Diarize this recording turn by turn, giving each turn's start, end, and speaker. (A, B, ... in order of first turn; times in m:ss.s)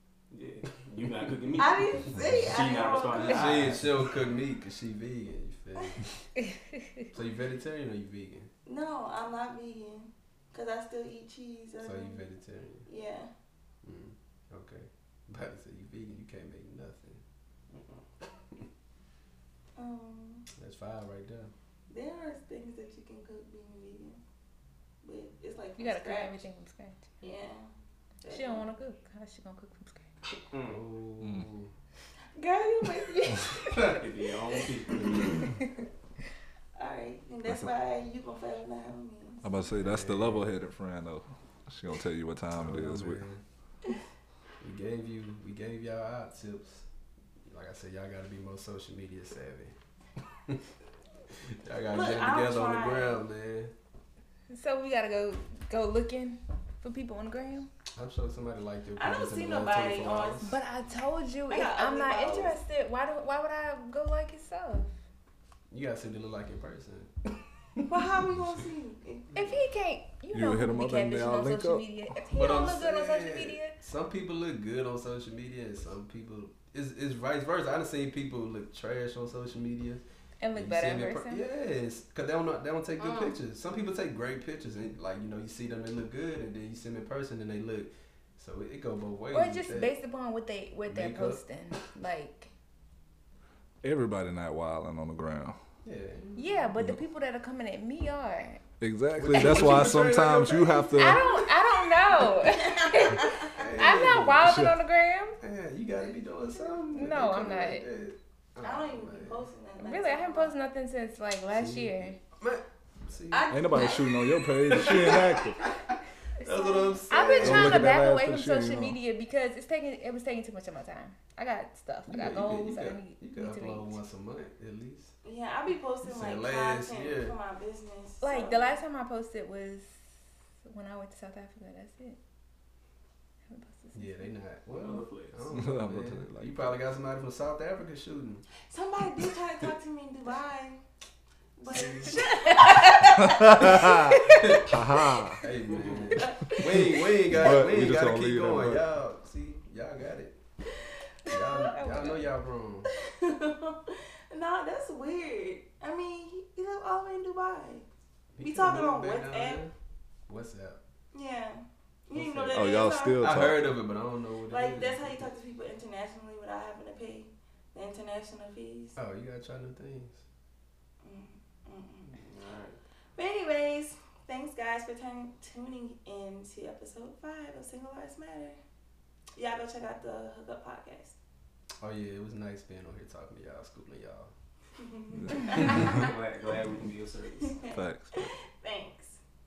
0:00.3-0:04.1 A
0:01.5-0:03.8 B
0:03.1-0:06.2 C
0:07.1-0:08.5 C
0:08.6-0:12.3 B
0:11.8-0:12.9 C
0:12.8-0:13.3 B
0:13.8-0:17.2 C
0:17.7-0:18.0 A
0:19.8-0:20.5 B
0:20.5-0:21.5 C
0:21.9-0:24.2 B
0:25.0-0:26.4 B
0:25.8-0:27.3 D
0:27.2-0:27.7 B
0:28.2-0:28.7 B
0:28.3-0:30.0 D
0:30.5-0:30.8 A
0:30.6-0:31.7 C
0:32.4-0:34.0 B
0:33.7-0:35.4 A
0:36.8-0:39.6 B
0:39.4-0:43.2 E
0:39.7-0:40.5 C
0:42.5-0:43.4 C
0:44.6-0:46.8 C
0:47.5-0:49.7 C
0:51.4-0:53.7 C
0:51.9-0:53.2 B
0:54.5-0:57.7 D
0:57.9-1:00.6 C
0:58.9-1:00.5 B
1:00.4-1:04.9 D
1:01.5-1:02.6 B
1:05.7-1:07.1 C
1:07.9-1:09.4 B
1:09.3-1:13.7 D
1:10.3-1:11.8 E
1:12.3-1:20.0 C
1:20.4-1:21.4 D
1:20.5-1:29.9 C
1:23.0-1:23.4 B
1:29.3-1:32.5 D
1:30.9-1:31.4 C
1:33.8-1:35.6 E
1:35.8-1:36.7 C
1:36.4-1:38.6 D
1:38.8-1:41.2 E
1:39.2-1:41.2 C
1:41.0-1:45.4 D
1:42.3-1:43.6 B
1:43.5-1:44.6 C
1:44.4-1:44.8 E
1:45.4-1:49.5 C
1:46.9-1:47.8 D
1:48.6-1:50.5 B
1:49.8-1:52.2 D
1:51.5-1:53.5 C
1:53.3-1:55.5 B
1:53.5-1:55.6 E
1:54.7-1:55.3 C
1:56.4-1:56.9 B
1:56.4-1:57.9 C
1:57.0-2:04.0 D
1:57.4-1:59.0 E
2:02.1-2:05.1 C
2:05.2-2:08.8 B
2:06.0-2:07.4 C
2:08.2-2:09.9 D
2:10.6-2:12.2 D
2:13.5-2:14.3 D
2:13.9-2:18.4 C
2:14.7-2:15.6 A
2:15.5-2:16.8 E
2:18.5-2:20.8 B
2:21.6-2:23.9 B
2:21.7-2:22.2 C
2:23.5-2:24.1 E
2:24.7-2:25.4 E
2:25.4-2:30.4 C
2:25.7-2:26.1 A
2:26.2-2:27.2 B
2:27.3-2:28.8 E
2:31.2-2:31.8 B
2:31.3-2:32.9 C
2:31.3-2:32.2 D
2:32.9-2:37.8 B
2:38.4-2:39.7 C
2:38.4-2:39.6 B
2:40.3-2:40.8 C
2:41.1-2:43.5 B
2:42.1-2:45.3 C
2:42.5-2:43.7 E
2:44.4-2:48.9 B
2:48.9-2:50.2 C
2:51.0-2:52.2 B
2:52.1-2:52.8 A
2:53.1-2:58.6 B
2:59.3-3:01.2 B
3:01.8-3:04.3 C
3:04.8-3:06.1 B
3:05.5-3:07.6 A
3:07.3-3:09.2 B
3:07.7-3:08.2 E